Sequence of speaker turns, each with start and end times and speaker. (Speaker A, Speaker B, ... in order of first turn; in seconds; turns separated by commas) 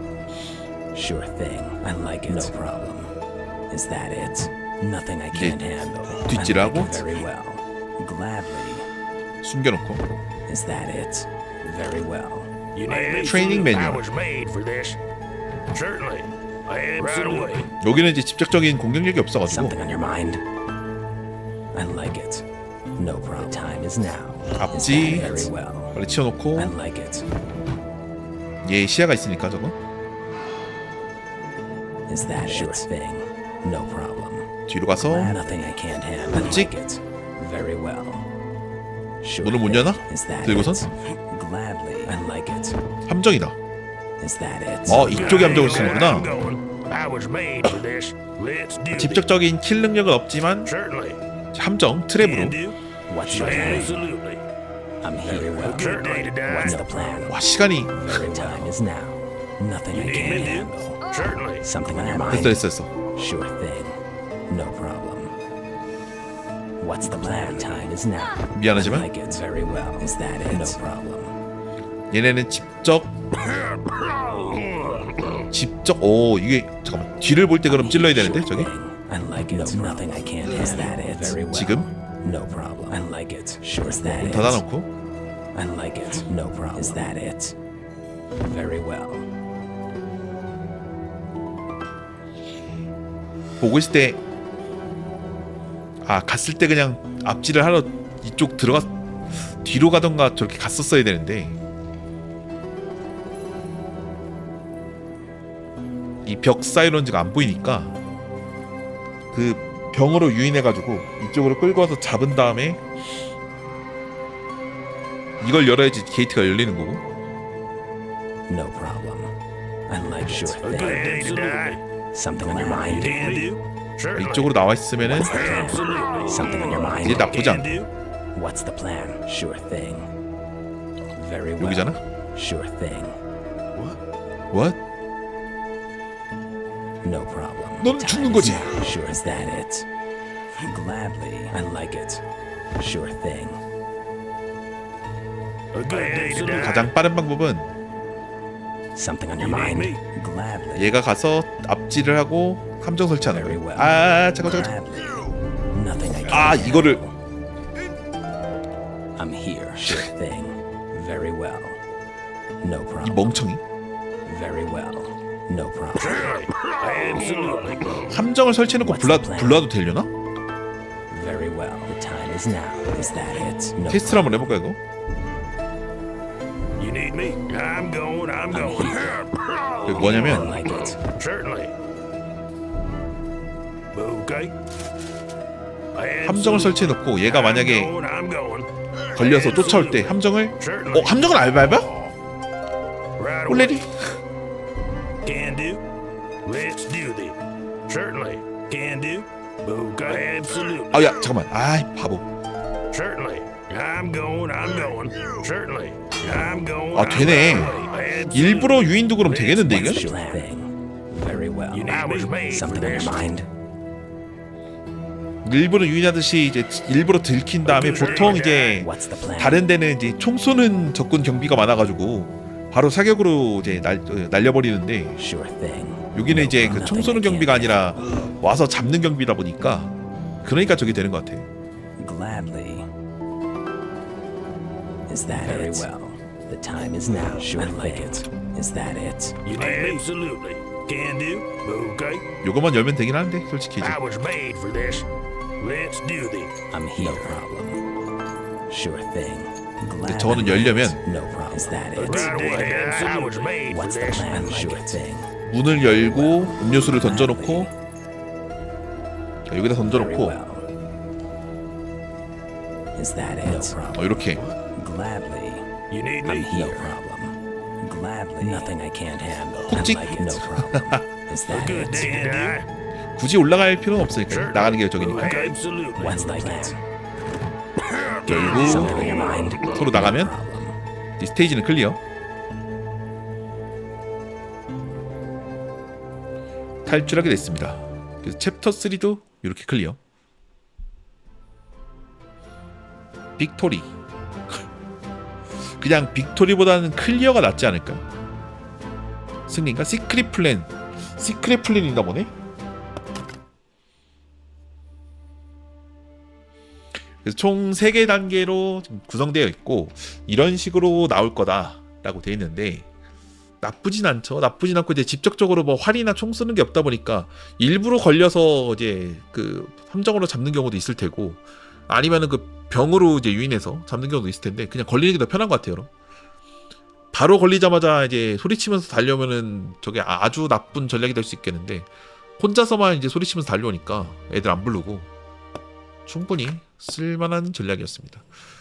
Speaker A: 0.9-3.1, Speaker A: 3.7-8.9, Speaker B: 5.3-7.1, Speaker B: 9.4-10.0, Speaker A: 10.5-12.6, Speaker C: 12.7-15.0, Speaker B: 13.2-14.0, Speaker C: 15.7-17.7, Speaker B: 17.8-19.8, Speaker A: 19.4-20.4, Speaker A: 21.7-25.9, Speaker B: 24.6-26.7, Speaker A: 26.6-27.3, Speaker B: 28.6-29.8, Speaker A: 32.1-38.3, Speaker B: 34.7-35.4, Speaker B: 36.3-36.7, Speaker A: 39.2-42.8, Speaker B: 39.4-40.9, Speaker B: 43.0-43.5, Speaker A: 44.2-45.8, Speaker B: 44.9-46.3, Speaker C: 45.1-49.2, Speaker B: 48.9-50.7, Speaker C: 50.6-51.2, Speaker B: 51.5-52.6, Speaker C: 52.2-52.8, Speaker A: 53.1-54.0, Speaker C: 53.3-54.4, Speaker A: 55.0-57.4, Speaker C: 55.6-57.2, Speaker B: 57.2-58.2, Speaker A: 57.9-61.0, Speaker C: 59.9-61.7, Speaker A: 61.6-62.6, Speaker B: 62.2-62.9, Speaker A: 63.1-65.3, Speaker A: 66.8-71.4, Speaker B: 68.5-69.1, Speaker B: 72.1-73.1, Speaker C: 74.1-75.4, Speaker B: 75.5-78.7, Speaker A: 77.7-84.6, Speaker B: 81.5-81.9, Speaker B: 83.9-84.9, Speaker A: 85.5-87.5, Speaker A: 88.4-89.3, Speaker B: 93.6-94.2, Speaker B: 96.0-101.6, Speaker B: 106.2-108.0, Speaker B: 109.3-112.8, Speaker B: 115.4-117.0, Speaker A: 118.5-119.3, Speaker A: 119.9-121.3, Speaker C: 120.6-121.8, Speaker A: 122.1-123.5, Speaker C: 122.6-124.6, Speaker B: 124.1-125.5, Speaker A: 125.0-127.3, Speaker C: 125.2-127.9, Speaker B: 127.0-127.7, Speaker A: 128.3-130.1, Speaker A: 131.1-133.2, Speaker B: 131.6-132.0, Speaker B: 134.5-134.8, Speaker A: 137.0-139.9, Speaker B: 137.8-138.9, Speaker A: 140.5-143.6, Speaker C: 145.7-146.9, Speaker B: 146.3-147.7, Speaker A: 148.9-150.9, Speaker C: 149.4-150.0, Speaker B: 150.7-154.8, Speaker A: 153.2-153.9, Speaker A: 154.6-157.1, Speaker B: 156.3-157.0, Speaker A: 159.2-161.8, Speaker A: 162.6-163.2, Speaker B: 163.0-163.6, Speaker A: 164.2-166.3, Speaker C: 166.0-168.1, Speaker B: 168.1-170.1, Speaker A: 168.8-169.6, Speaker A: 171.1-174.4, Speaker B: 173.9-174.8, Speaker C: 176.8-181.7, Speaker A: 178.5-179.2, Speaker B: 179.8-180.6, Speaker A: 179.9-181.0, Speaker C: 183.9-184.5, Speaker C: 185.9-191.9, Speaker B: 186.2-187.9, Speaker B: 189.1-191.9, Speaker C: 193.2-193.8, Speaker B: 193.5-194.1, Speaker C: 195.2-195.8, Speaker C: 196.4-201.2, Speaker B: 200.9-202.3, Speaker C: 202.9-209.8, Speaker B: 206.9-210.1, Speaker A: 209.4-213.5, Speaker C: 211.7-213.3, Speaker B: 215.4-225.2, Speaker C: 217.7-218.8, Speaker A: 218.0-219.6, Speaker A: 225.2-227.8, Speaker B: 226.1-231.5, Speaker A: 232.0-232.9, Speaker A: 235.1-239.6, Speaker C: 239.4-242.3, Speaker B: 242.4-244.0, Speaker C: 243.8-245.1, Speaker C: 245.6-246.5, Speaker A: 246.7-247.8, Speaker A: 248.7-252.9, Speaker B: 250.0-251.0, Speaker C: 252.0-254.6, Speaker A: 253.7-255.3, Speaker B: 255.5-257.7, Speaker A: 256.3-257.6, Speaker B: 259.5-260.4, Speaker A: 259.9-260.6, Speaker A: 262.9-272.6, Speaker B: 263.9-264.5, Speaker C: 265.9-266.9, Speaker B: 269.7-271.1, Speaker C: 271.5-272.6, Speaker B: 273.2-275.4, Speaker C: 274.3-276.7, Speaker A: 275.9-276.8, Speaker C: 278.0-279.7, Speaker B: 278.2-280.4, Speaker A: 278.6-280.7, Speaker B: 281.2-282.0, Speaker B: 286.8-290.0, Speaker B: 293.4-293.9, Speaker B: 295.8-298.0, Speaker B: 299.5-302.3, Speaker B: 307.2-312.9, Speaker B: 313.6-325.9, Speaker B: 327.1-335.1, Speaker B: 336.1-338.2